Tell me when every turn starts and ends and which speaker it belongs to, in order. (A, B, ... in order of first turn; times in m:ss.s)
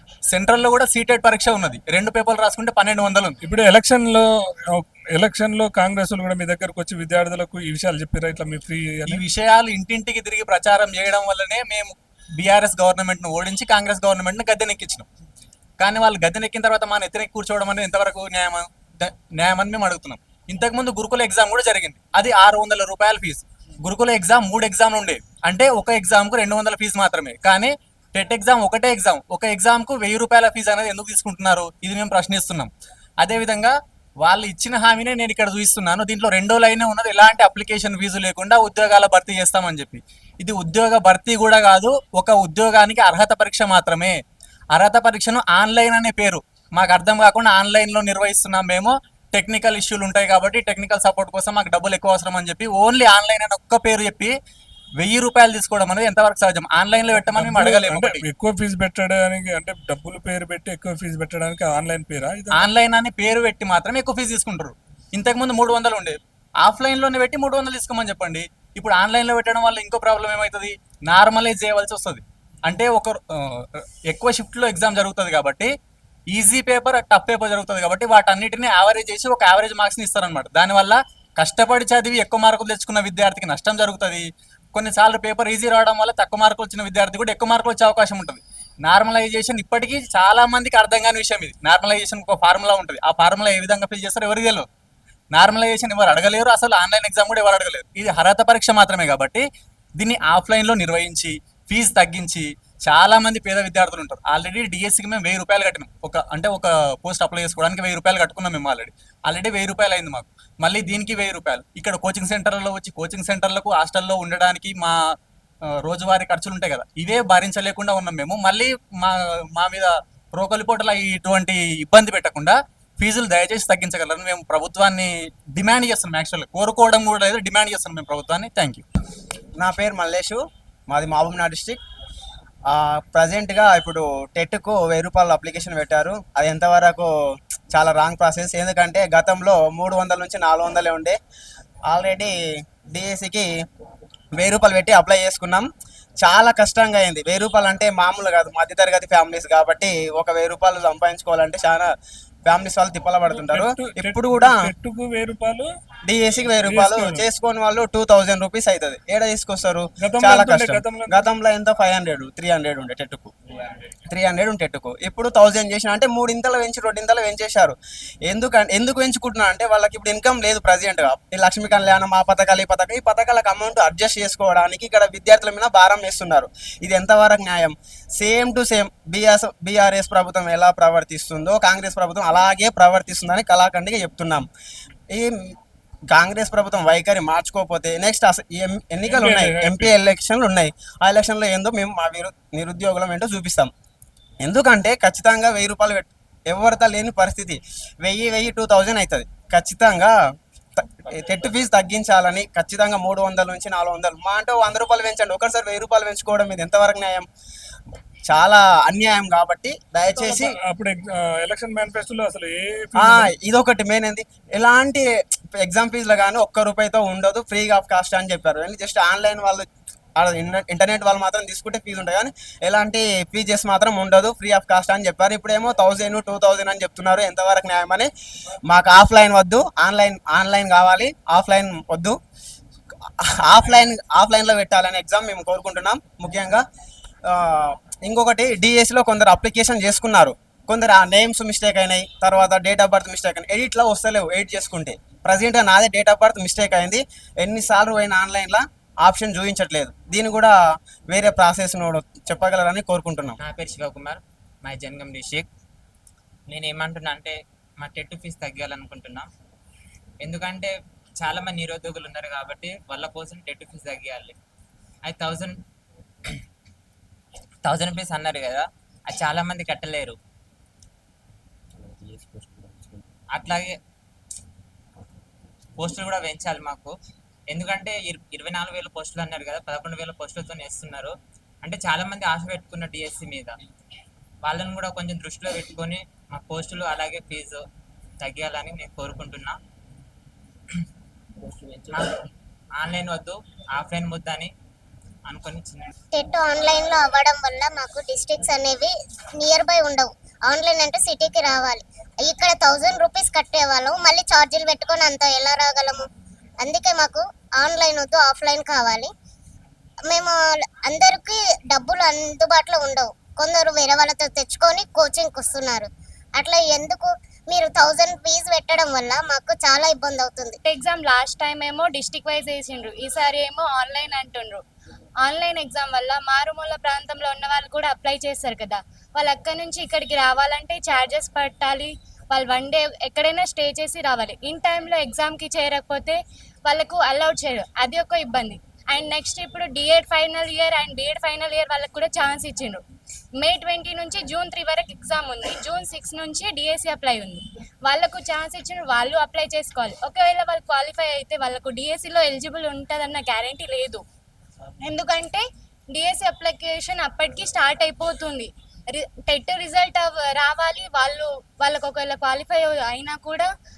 0:00.3-0:03.4 A
0:03.4-0:09.2 B
0:09.1-0:15.1 A
0:15.8-0:32.7 A
0:33.2-0:44.2 A
0:44.7-0:54.3 A
0:55.0-0:58.2 A
0:57.1-1:02.7 B
1:02.5-1:15.7 A
1:16.3-1:34.6 A
1:35.3-1:39.4 A
1:40.0-1:54.9 A
1:55.8-2:08.8 A
2:09.6-2:11.8 C
2:12.7-2:17.1 C
2:17.7-2:21.2 C
2:21.9-2:22.3 C
2:22.9-2:23.5 C
2:24.4-2:25.7 C
2:26.2-2:31.9 C
2:32.4-2:34.7 C
2:33.3-2:35.7 B
2:36.1-2:43.3 C
2:36.6-2:37.2 B
2:40.0-2:41.2 B
2:44.1-2:47.8 C
2:48.3-3:04.4 C
3:05.1-3:05.5 C
3:06.1-3:13.7 C
3:09.0-3:09.9 B
3:14.4-3:20.1 C
3:20.8-3:27.3 C
3:28.3-3:30.6 C
3:30.2-3:33.3 B
3:32.9-3:35.0 C
3:35.6-3:39.6 C
3:40.2-3:48.1 C
3:48.7-3:52.2 C
3:53.4-3:56.6 C
3:57.3-4:10.5 C
4:11.1-4:13.4 C
4:13.4-4:15.5 D
4:16.5-4:19.3 D
4:20.2-4:24.3 D
4:25.0-4:25.5 D
4:27.6-4:30.1 D
4:33.3-4:33.7 D
4:35.8-4:36.9 D
4:37.5-4:43.5 D
4:44.4-4:47.6 D
4:48.2-4:49.5 D
4:52.8-4:54.5 D
4:55.3-4:55.8 D
4:56.1-5:06.0 E
5:06.6-5:09.1 E
5:10.1-5:20.6 E
5:20.6-5:24.6 F
5:25.2-5:42.8 F
5:43.4-5:54.0 F
5:54.8-6:03.5 F